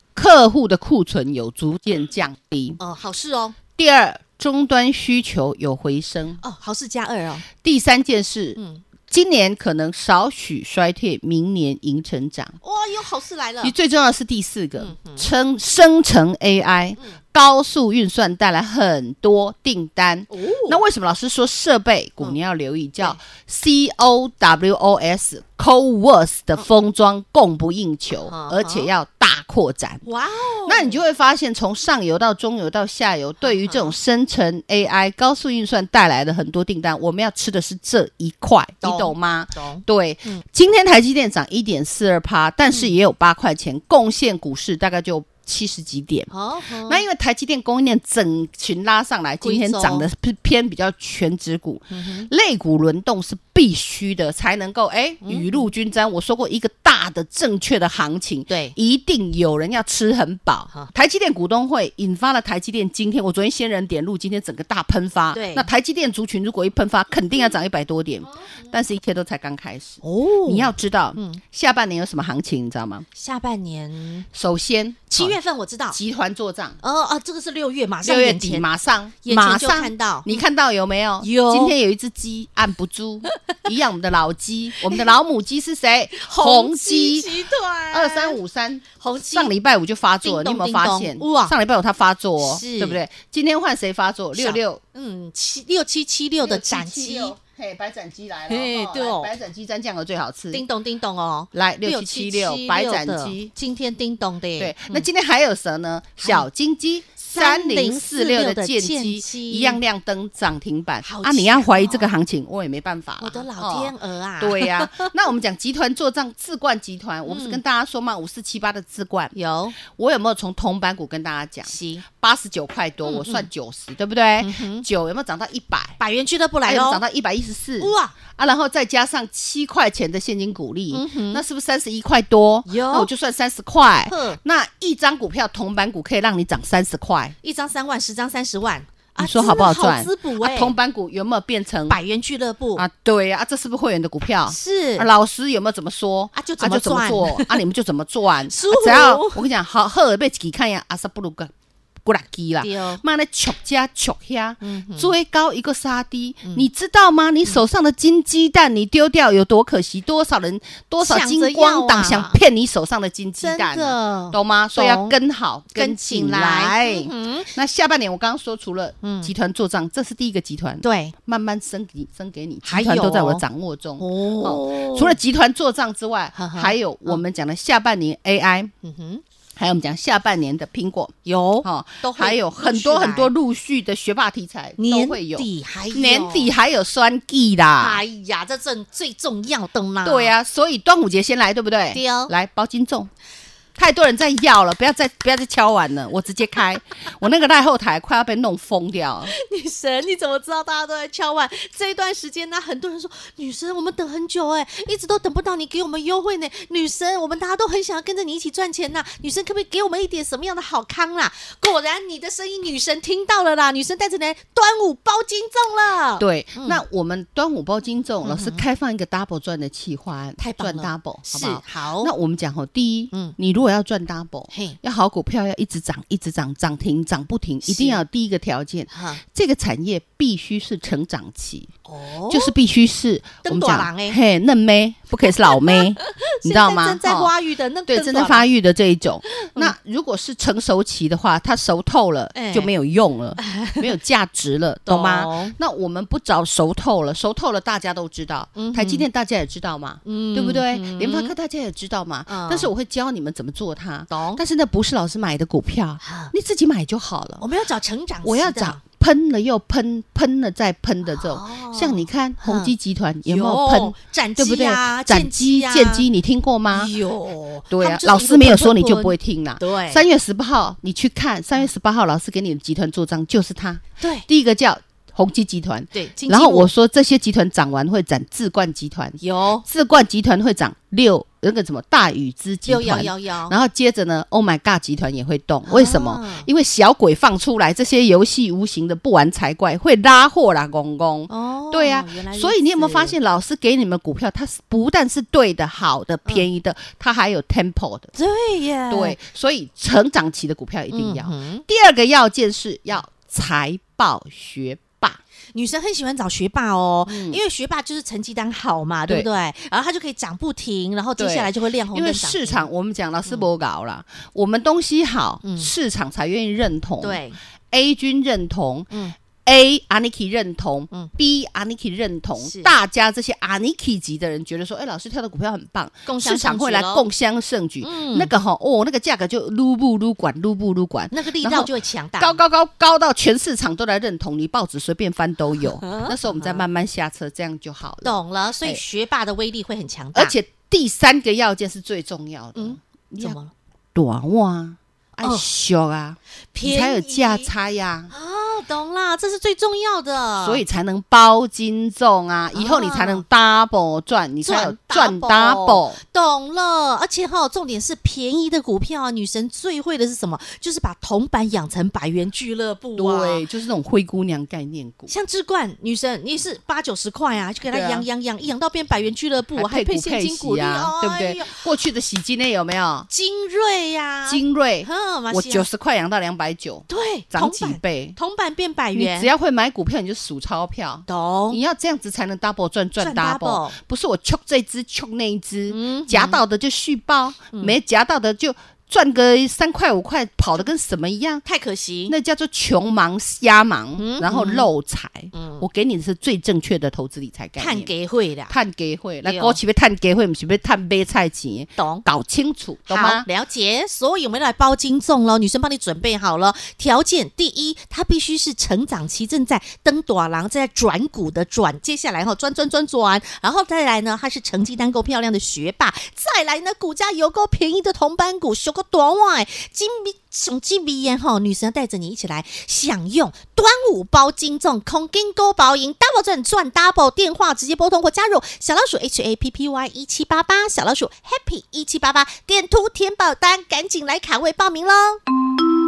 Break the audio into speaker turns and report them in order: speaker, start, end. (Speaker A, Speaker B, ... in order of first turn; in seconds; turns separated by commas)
Speaker A: 0.1-2.8, Speaker B: 2.8-3.6, Speaker A: 3.8-6.4, Speaker B: 6.4-7.5, Speaker A: 7.6-12.6, Speaker B: 8.6-8.8, Speaker B: 12.6-13.8, Speaker A: 13.6-30.0, Speaker B: 14.8-15.3, Speaker B: 20.3-20.8, Speaker B: 28.3-28.9, Speaker B: 30.1-31.0, Speaker A: 30.7-46.3, Speaker B: 33.4-34.0, Speaker B: 38.8-40.4, Speaker B: 46.3-47.0, Speaker A: 46.9-73.1, Speaker B: 49.4-50.1, Speaker B: 51.9-52.3, Speaker B: 55.2-55.7, Speaker B: 58.5-58.8, Speaker B: 65.3-65.7, Speaker B: 68.3-68.6, Speaker B: 70.0-71.4, Speaker B: 73.2-74.3, Speaker A: 74.3-75.4, Speaker B: 75.1-76.0, Speaker A: 75.9-76.8, Speaker B: 76.8-78.7, Speaker A: 78.0-87.3, Speaker B: 79.2-80.4, Speaker B: 81.2-81.7, Speaker B: 86.2-88.4, Speaker A: 87.9-94.8, Speaker B: 89.0-89.5, Speaker B: 90.2-91.5, Speaker B: 92.4-93.0, Speaker B: 94.3-97.3, Speaker A: 96.4-100.6, Speaker B: 98.5-99.3, Speaker B: 100.5-105.1, Speaker A: 101.5-103.5, Speaker A: 104.6-126.0, Speaker B: 106.2-106.5, Speaker B: 107.3-109.8, Speaker B: 111.0-112.1, Speaker B: 113.2-115.1, Speaker B: 117.3-117.6, Speaker B: 119.3-119.8, Speaker B: 121.7-122.0, Speaker B: 123.0-123.5, Speaker B: 124.4-124.8, Speaker B: 126.0-127.0, Speaker A: 126.7-137.3, Speaker B: 127.8-128.2, Speaker B: 130.9-131.4, Speaker B: 132.7-133.1, Speaker B: 134.1-134.4, Speaker B: 137.4-140.8, Speaker A: 139.2-142.0, Speaker B: 141.9-142.8, Speaker A: 142.8-151.5, Speaker B: 144.5-145.1, Speaker B: 146.3-147.6, Speaker B: 148.5-149.4, Speaker A: 152.1-178.7, Speaker B: 152.6-153.0, Speaker B: 154.6-155.1, Speaker B: 161.0-162.4, Speaker B: 163.4-165.2, Speaker B: 165.7-167.5, Speaker B: 169.0-169.3, Speaker B: 170.8-171.1, Speaker B: 172.6-173.4, Speaker B: 174.0-175.2, Speaker B: 176.3-177.2, Speaker B: 178.8-179.2, Speaker A: 179.6-188.0, Speaker B: 181.2-183.3, Speaker B: 184.8-186.5, Speaker B: 187.8-190.3, Speaker A: 190.0-193.1, Speaker B: 191.9-192.3, Speaker A: 193.8-199.3, Speaker B: 199.3-216.8, Speaker A: 216.2-231.7, Speaker B: 218.2-218.6, Speaker B: 220.4-222.1, Speaker B: 224.5-224.8, Speaker B: 227.6-228.0, Speaker B: 228.9-229.2, Speaker B: 231.9-232.5, Speaker A: 232.3-237.3, Speaker B: 233.4-234.2, Speaker B: 235.4-238.5, Speaker A: 237.9-257.4, Speaker B: 239.3-239.7, Speaker B: 242.3-242.7, Speaker B: 243.4-243.8, Speaker B: 244.9-245.6, Speaker B: 248.6-249.1, Speaker B: 250.1-251.3, Speaker B: 252.3-252.7, Speaker B: 254.1-254.4, Speaker B: 256.0-256.3, Speaker B: 257.4-258.8, Speaker A: 258.2-266.9, Speaker B: 261.1-262.7, Speaker B: 263.3-266.1, Speaker B: 266.7-270.0, Speaker A: 267.7-298.1, Speaker B: 274.0-274.3, Speaker B: 275.9-276.7, Speaker B: 279.2-279.6, Speaker B: 282.7-283.6, Speaker B: 285.7-286.5, Speaker B: 291.3-293.1, Speaker B: 298.1-299.2, Speaker A: 298.9-305.2, Speaker B: 300.9-301.6, Speaker B: 305.5-312.7, Speaker A: 307.1-307.4, Speaker A: 311.2-318.9, Speaker B: 315.4-315.7, Speaker B: 317.0-317.4, Speaker B: 318.9-319.2, Speaker A: 319.4-338.8, Speaker B: 322.4-322.7, Speaker B: 326.1-327.0, Speaker B: 327.8-328.3, Speaker B: 331.1-332.4, Speaker B: 335.8-336.6, Speaker B: 338.0-340.3, Speaker A: 340.1-343.4, Speaker B: 342.6-343.5, Speaker A: 343.9-348.1, Speaker B: 346.5-347.5, Speaker B: 348.1-350.6, Speaker A: 350.4-356.0, Speaker B: 352.5-353.2, Speaker B: 354.4-363.4, Speaker A: 363.0-365.1, Speaker B: 365.1-371.6, Speaker A: 367.7-368.1, Speaker A: 369.6-373.1, Speaker B: 373.1-375.7, Speaker A: 374.3-378.2, Speaker B: 376.9-379.3, Speaker A: 378.9-391.4, Speaker B: 381.1-381.6, Speaker B: 383.0-383.8, Speaker B: 385.7-386.4, Speaker B: 391.4-392.1, Speaker A: 392.1-397.9, Speaker B: 394.0-394.7, Speaker B: 395.3-395.6, Speaker B: 397.6-398.6, Speaker A: 398.5-403.3, Speaker B: 399.2-399.6, Speaker B: 401.8-402.1, Speaker B: 402.9-435.2